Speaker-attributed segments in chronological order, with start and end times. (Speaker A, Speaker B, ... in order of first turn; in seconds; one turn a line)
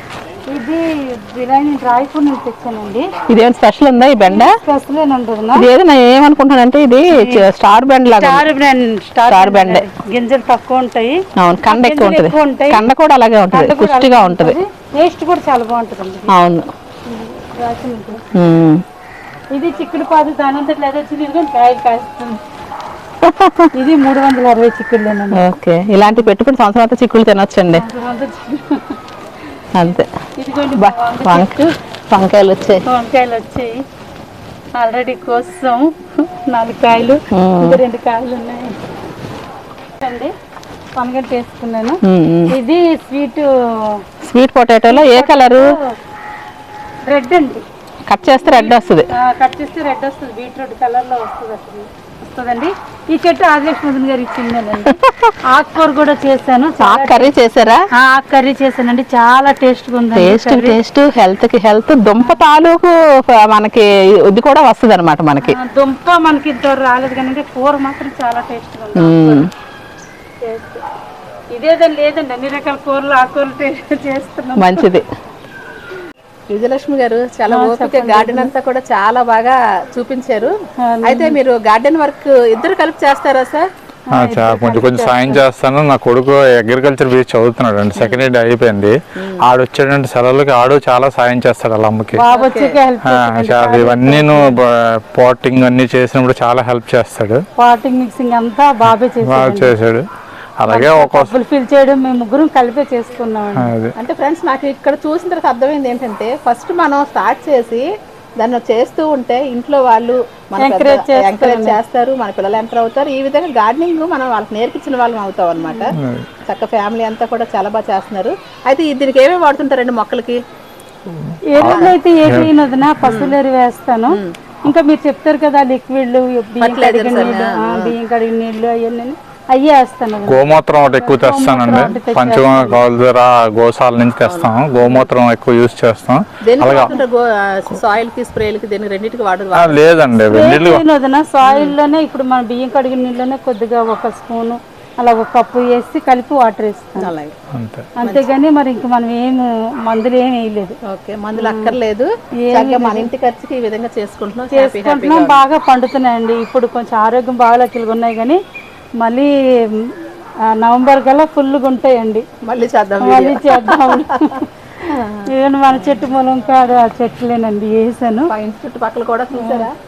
Speaker A: 0.5-3.1
Speaker B: 3.3-4.5
Speaker A: 4.2-5.7
Speaker B: 5.5-8.4
Speaker A: 7.1-7.5
Speaker A: 8.2-12.8
Speaker B: 9.3-9.8
Speaker B: 11.4-14.6
Speaker A: 13.5-16.3
Speaker B: 16.3-16.7
Speaker A: 17.1-18.3
Speaker B: 18.4-18.8
Speaker A: 19.5-22.4
Speaker B: 23.2-23.7
Speaker A: 23.7-25.5
Speaker B: 25.3-27.8
Speaker A: 26.1-26.3
Speaker A: 27.7-29.0
Speaker B: 29.8-30.1
Speaker A: 29.8-31.6
Speaker B: 30.8-32.8
Speaker A: 32.8-33.7
Speaker A: 34.8-35.9
Speaker A: 36.5-38.7
Speaker B: 37.3-37.8
Speaker A: 40.0-40.3
Speaker A: 41.0-42.0
Speaker B: 42.0-42.5
Speaker A: 42.5-44.0
Speaker B: 44.2-45.7
Speaker A: 44.9-45.8
Speaker A: 47.0-47.6
Speaker B: 48.1-49.0
Speaker A: 48.4-55.0
Speaker B: 54.8-55.3
Speaker A: 55.5-57.3
Speaker B: 56.8-57.8
Speaker A: 58.0-60.8
Speaker B: 60.1-65.5
Speaker A: 65.4-69.5
Speaker B: 69.0-69.5
Speaker A: 70.4-70.8
Speaker A: 71.5-74.9
Speaker B: 74.6-75.0
Speaker B: 76.5-80.5
Speaker A: 77.5-78.5
Speaker A: 80.8-81.4
Speaker B: 81.0-83.7
Speaker A: 84.1-85.4
Speaker C: 84.1-92.2
Speaker B: 88.0-88.2
Speaker B: 89.2-89.4
Speaker A: 92.1-94.6
Speaker B: 92.3-92.8
Speaker C: 93.0-97.4
Speaker A: 97.6-99.7
Speaker C: 98.8-100.0
Speaker C: 100.6-101.3
Speaker A: 100.7-103.7
Speaker C: 103.6-103.9
Speaker B: 104.0-107.8
Speaker B: 108.4-115.9
Speaker A: 110.6-111.8
Speaker A: 115.6-115.9
Speaker C: 116.0-116.3
Speaker B: 116.5-120.4
Speaker C: 121.2-123.1
Speaker A: 121.5-132.8
Speaker B: 121.6-122.0
Speaker B: 123.0-123.3
Speaker B: 124.1-124.3
Speaker B: 126.6-127.9
Speaker C: 130.3-136.9
Speaker B: 134.2-135.1
Speaker B: 136.4-140.6
Speaker C: 139.6-140.8
Speaker A: 140.3-147.1
Speaker B: 141.4-141.7
Speaker B: 147.0-147.3
Speaker C: 147.6-147.9
Speaker A: 148.0-150.8
Speaker B: 148.0-148.3
Speaker B: 150.9-155.4
Speaker A: 151.4-151.7
Speaker A: 152.5-153.1
Speaker A: 154.5-158.4
Speaker A: 159.0-159.9
Speaker A: 160.5-162.2
Speaker B: 162.4-164.1
Speaker A: 163.0-164.4
Speaker B: 164.8-166.1
Speaker A: 165.3-168.3
Speaker B: 168.3-169.7
Speaker A: 169.3-169.7